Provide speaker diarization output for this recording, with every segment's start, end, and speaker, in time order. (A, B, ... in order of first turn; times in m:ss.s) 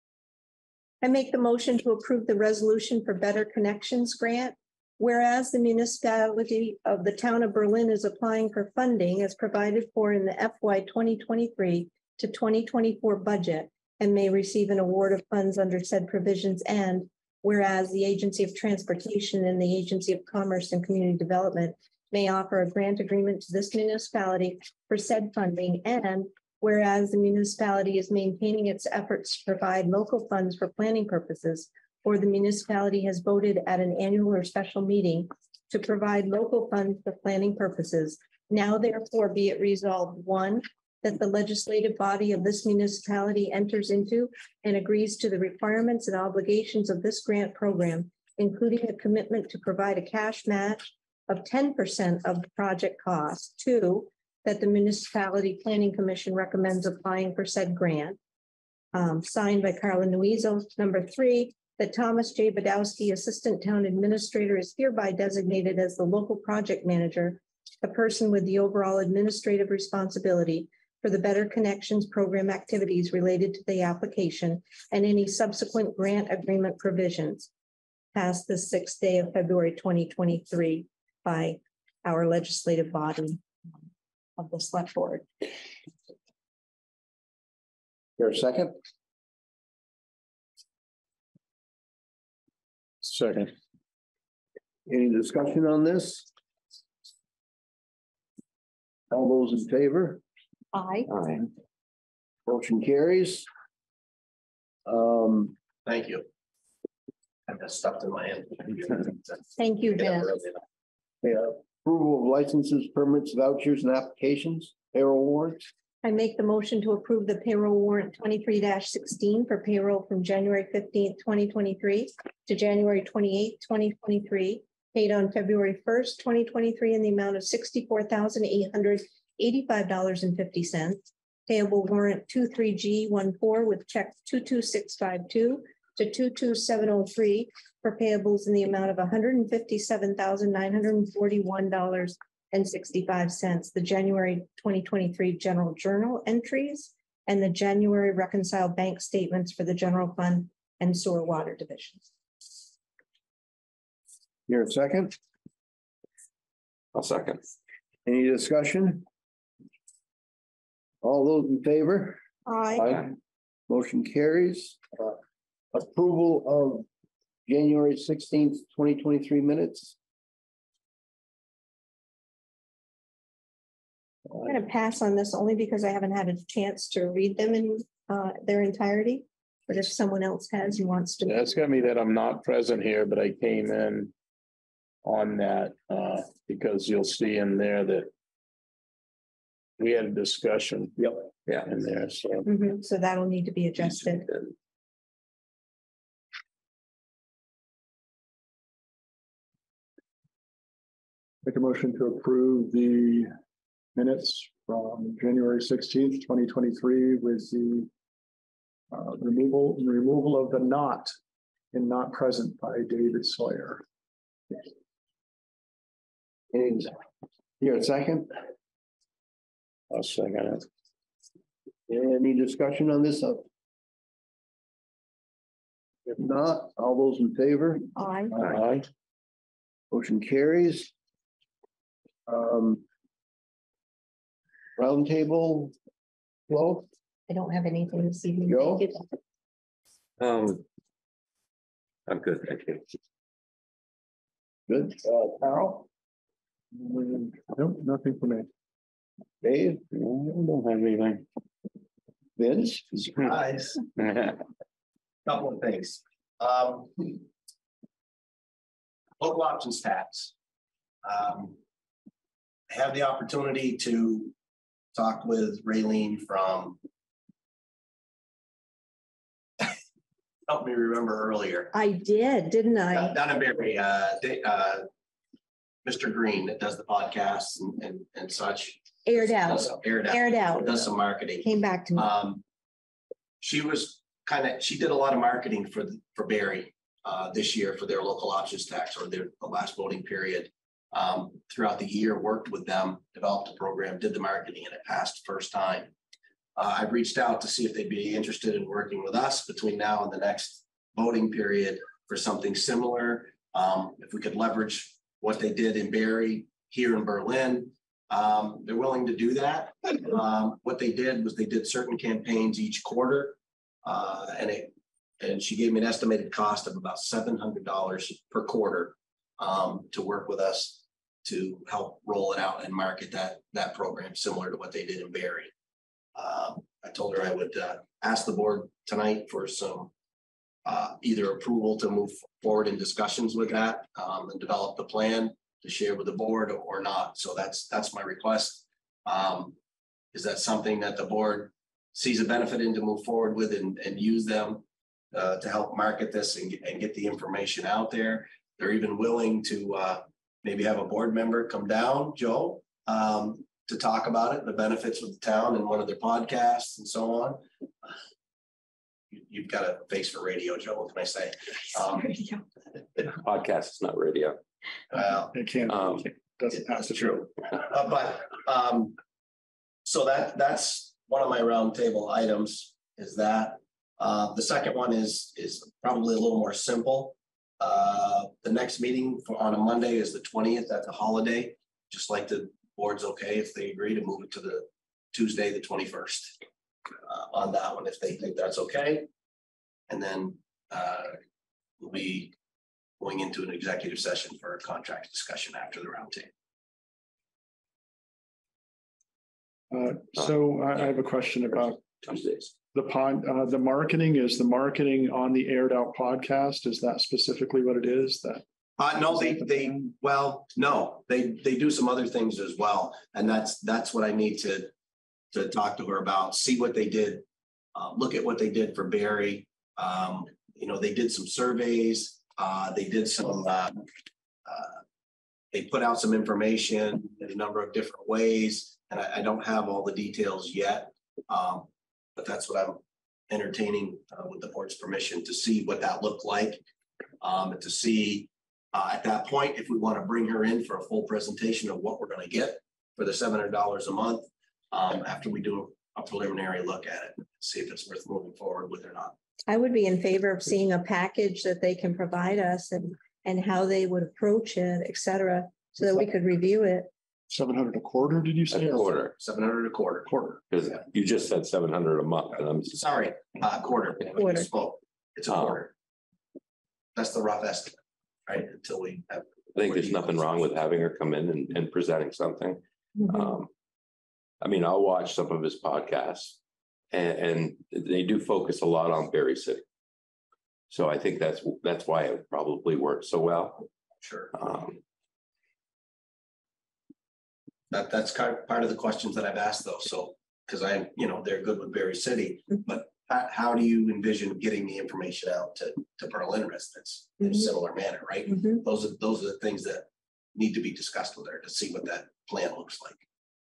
0:01.0-0:58.2 A
0:58.9-1:17.5 A
1:18.1-1:23.4 A
1:24.4-1:25.3 A
1:28.2-1:28.8 B
1:33.0-1:33.5 C
1:34.8-1:36.3 B
1:39.1-1:40.2 B
1:40.7-1:41.1 A
1:41.1-1:41.4 D
1:42.4-1:43.5 B
1:44.8-1:45.5 B
1:45.8-1:46.2 E
1:47.5-1:50.6 E
1:49.6-1:50.4 A
1:51.2-1:55.6 B
1:56.0-2:32.0 A
2:34.5-2:35.2 B
2:36.9-2:37.4 D
2:38.0-2:39.0 B
2:41.0-2:42.2 B
2:42.4-2:43.0 A
2:43.7-2:45.2 B
2:45.7-2:46.8 B
2:47.5-2:50.0 B
2:54.4-3:01.5 A
3:01.2-3:04.1 C
3:05.0-3:08.1 C
3:09.8-3:11.0 C
3:11.6-3:12.5 C
3:12.4-3:14.3 A
3:14.3-3:14.5 D
3:21.4-3:23.3 F
3:24.0-3:27.9 F
3:28.9-3:31.1 F
3:31.7-3:33.8 F
3:36.5-3:36.9 B
3:37.6-3:38.3 B
3:39.9-3:40.7 C
3:41.9-3:43.4 B
3:46.0-3:47.9 B
3:48.0-3:48.4 A
3:48.4-3:48.9 C
3:49.9-3:50.9 B
3:52.3-3:52.8 B
3:54.8-3:55.7 B
3:56.5-3:56.9 B
3:57.3-3:59.0 A
3:58.4-3:58.9 B
4:00.2-4:00.6 D
4:02.1-4:02.8 D
4:04.7-4:05.9 B
4:06.7-4:08.5 F
4:09.4-4:09.8 B
4:09.9-4:11.2 C
4:12.4-4:13.0 B
4:13.0-4:13.8 E
4:14.0-4:14.4 C
4:15.2-4:17.2 E
4:19.2-4:20.3 E
4:21.0-4:21.6 E
4:22.7-4:24.3 E
4:24.9-4:26.8 E
4:30.5-4:31.7 E
4:31.7-4:33.2 A
4:32.9-4:34.9 E
4:35.8-4:42.4 E
4:39.0-4:40.9 A
4:41.4-4:42.1 A
4:43.4-4:55.9 E
4:56.6-5:25.5 E
5:26.1-5:29.9 E
5:30.6-5:39.5 E
5:40.1-5:57.9 E
5:59.1-6:02.2 E
6:03.1-6:04.4 D
6:04.9-6:05.3 E
6:05.3-6:07.2 F
6:05.7-6:06.0 D
6:06.6-6:09.0 E
6:09.8-6:26.4 E
6:27.0-6:29.1 E
6:29.9-6:31.2 E
6:31.8-6:32.3 E
6:33.0-6:36.3 E
6:39.7-6:41.8 F
6:42.0-6:42.5 D
6:42.7-6:48.4 F
6:48.8-6:54.7 E
6:49.1-6:49.9 F
6:55.3-6:57.2 E
6:57.7-7:03.8 E
7:04.4-7:04.8 E
7:05.5-7:16.6 E
7:17.2-7:29.1 E
7:29.5-7:36.9 A
7:37.3-7:38.9 F
7:38.5-7:39.1 D
7:39.2-7:40.1 E
7:40.0-7:40.4 F
7:40.5-7:42.8 D
7:42.7-7:45.7 E
7:44.2-7:44.5 A
7:45.3-7:45.6 D
7:46.9-7:50.3 E
7:49.5-7:53.5 D
7:54.4-7:56.4 D
7:56.9-7:59.6 D
8:00.7-8:03.7 D
8:04.0-8:04.3 E
8:04.3-8:04.8 D
8:07.7-8:23.0 E